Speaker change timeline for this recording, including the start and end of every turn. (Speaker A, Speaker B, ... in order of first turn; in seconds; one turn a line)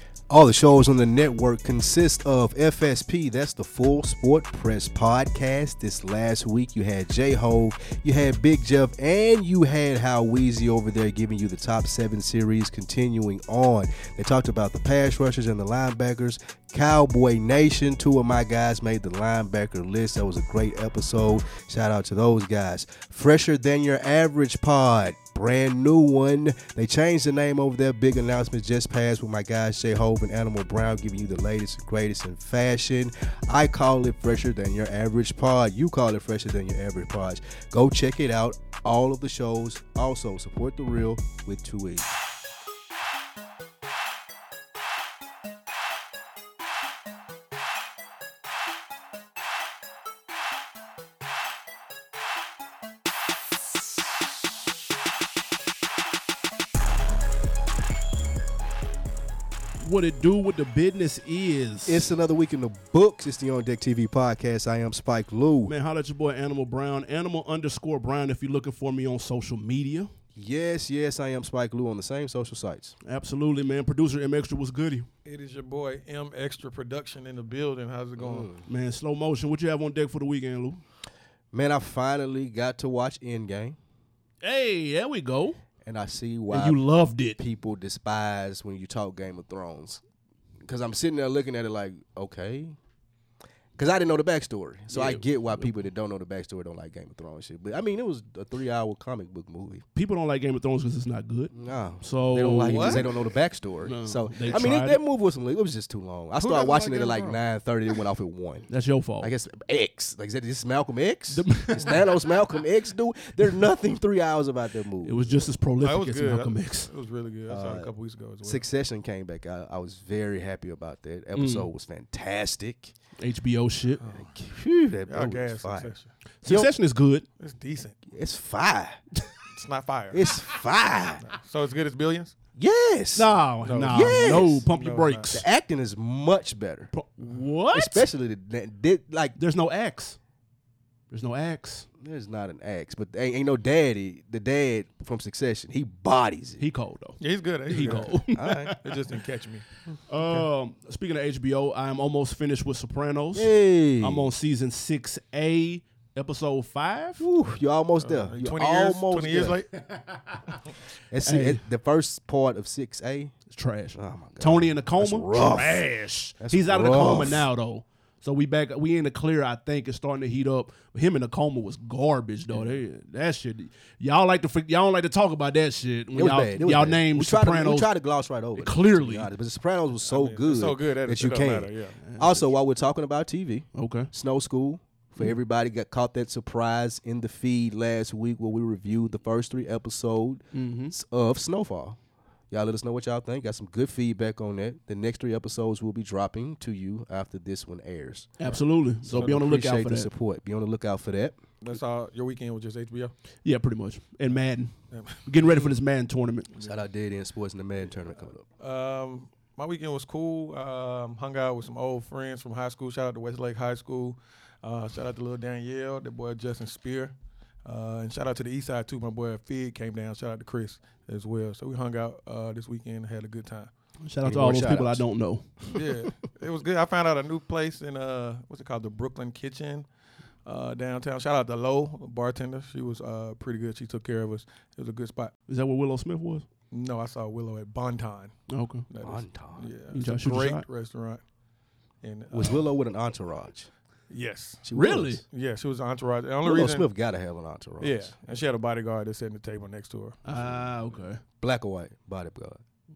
Speaker A: 0.3-42.1
Speaker B: 59.8-62.0
Speaker A: 61.9-65.7
Speaker B: 65.7-70.1
Speaker A: 70.3-72.9
Speaker B: 73.0-75.1
Speaker C: 75.2-78.5
Speaker A: 78.2-78.6
Speaker B: 78.7-80.8
Speaker A: 81.5-83.8
Speaker B: 84.4-85.6
Speaker A: 85.8-86.8
Speaker B: 86.5-87.4
Speaker A: 87.4-90.0
Speaker A: 90.6-92.8
Speaker A: 93.8-99.8
Speaker B: 94.9-95.7
Speaker B: 99.9-103.0
Speaker A: 101.5-108.7
Speaker C: 102.7-103.0
Speaker B: 103.8-105.0
Speaker C: 106.3-107.4
Speaker B: 108.7-109.3
Speaker A: 109.2-115.5
Speaker B: 111.3-111.9
Speaker B: 115.0-116.9
Speaker C: 115.8-118.6
Speaker A: 117.5-117.9
Speaker A: 118.4-122.9
Speaker B: 121.3-121.7
Speaker B: 123.2-124.0
Speaker C: 124.0-124.3
Speaker A: 124.2-125.9
Speaker C: 125.1-126.1
Speaker B: 126.4-127.2
Speaker C: 127.4-128.0
Speaker A: 128.1-129.0
Speaker C: 129.5-130.2
Speaker A: 130.1-131.2
Speaker C: 131.2-132.4
Speaker A: 132.6-133.3
Speaker B: 133.1-135.4
Speaker C: 133.6-135.3
Speaker A: 133.9-134.6
Speaker A: 135.3-136.9
Speaker B: 136.9-138.0
Speaker A: 137.7-139.3
Speaker B: 139.3-140.2
Speaker B: 141.1-141.9
Speaker A: 142.0-146.6
Speaker B: 146.6-148.8
Speaker C: 147.2-148.1
Speaker A: 147.8-148.8
Speaker C: 148.8-149.6
Speaker B: 150.1-157.2
Speaker A: 153.3-154.3
Speaker A: 157.2-159.6
Speaker C: 158.0-159.7
Speaker A: 161.1-163.3
Speaker B: 161.2-161.6
Speaker B: 163.5-177.9
Speaker A: 163.9-165.8
Speaker A: 166.4-167.5
Speaker A: 176.1-192.0
Speaker B: 178.6-179.3
Speaker C: 180.1-181.9
Speaker B: 182.0-182.5
Speaker B: 183.7-184.1
Speaker B: 190.5-190.9
Speaker A: 192.5-198.6
Speaker B: 198.4-200.1
Speaker A: 199.1-201.4
Speaker C: 199.1-199.4
Speaker C: 201.6-203.1
Speaker B: 203.4-204.7
Speaker C: 204.9-205.7
Speaker B: 205.2-206.5
Speaker A: 206.6-208.4
Speaker C: 208.6-217.1
Speaker C: 217.6-223.7
Speaker B: 224.0-225.5
Speaker A: 224.2-225.0
Speaker C: 225.7-229.8
Speaker C: 230.4-235.3
Speaker B: 235.5-236.4
Speaker C: 236.7-238.3
Speaker B: 238.5-238.8
Speaker C: 238.9-241.2
Speaker A: 239.0-239.7
Speaker B: 239.9-240.6
Speaker C: 242.0-242.6
Speaker A: 242.3-243.7
Speaker C: 244.1-244.6
Speaker A: 244.6-245.2
Speaker B: 244.7-245.2
Speaker C: 245.3-246.9
Speaker A: 246.4-248.1
Speaker C: 247.8-250.2
Speaker B: 250.2-251.2
Speaker A: 250.3-250.7
Speaker A: 251.4-252.6